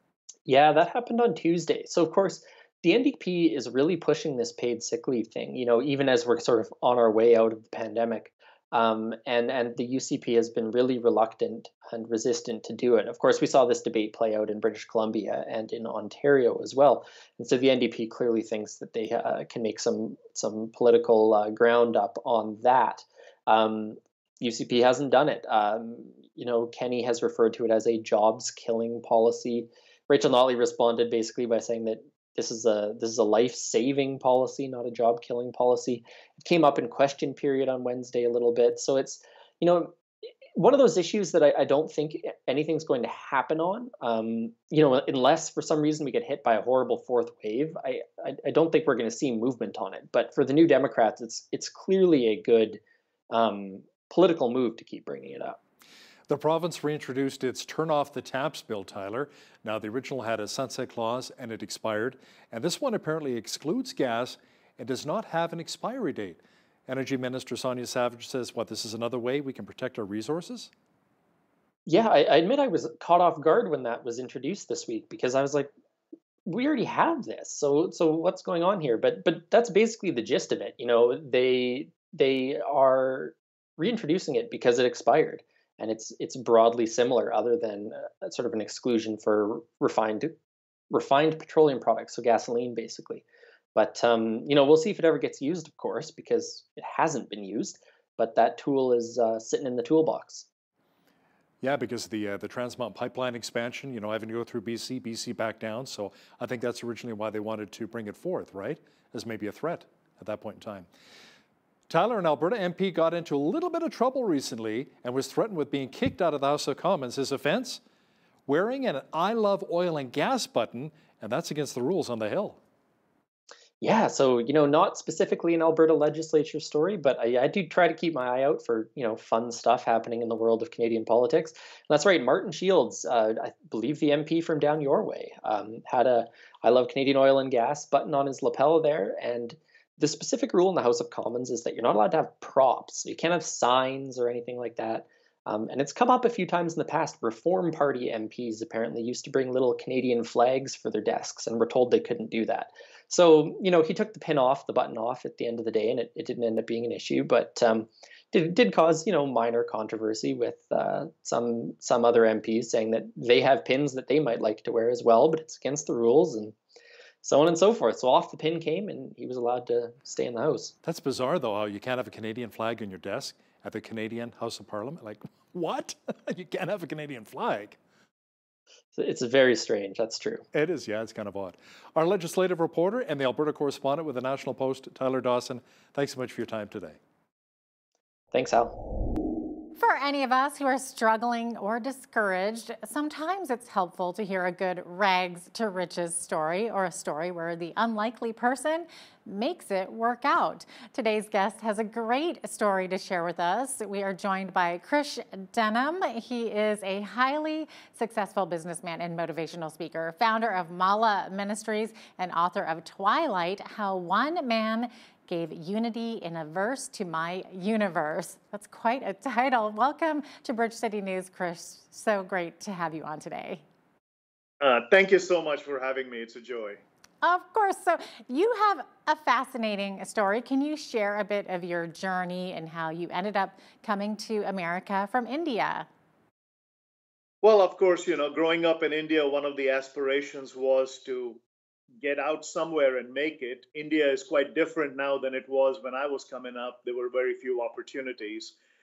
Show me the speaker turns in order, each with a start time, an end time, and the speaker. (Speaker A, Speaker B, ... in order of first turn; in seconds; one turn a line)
Speaker A: 0.5-40.0
Speaker A: 40.5-55.6
Speaker B: 56.3-70.7
Speaker A: 71.9-75.7
Speaker A: 76.5-90.3
Speaker A: 90.9-93.2
Speaker A: 93.8-100.5
Speaker B: 101.6-110.9
Speaker B: 111.9-117.8
Speaker B: 118.5-122.6
Speaker A: 123.8-166.5
Speaker A: 167.2-170.7
Speaker B: 170.8-177.8
Speaker A: 178.9-180.5
Speaker B: 180.5-187.0
Speaker A: 188.3-188.8
Speaker C: 189.8-223.6
Speaker D: 224.6-226.8
Speaker C: 227.2-235.9
Speaker D: 237.4-241.4
Speaker D: 242.0-248.5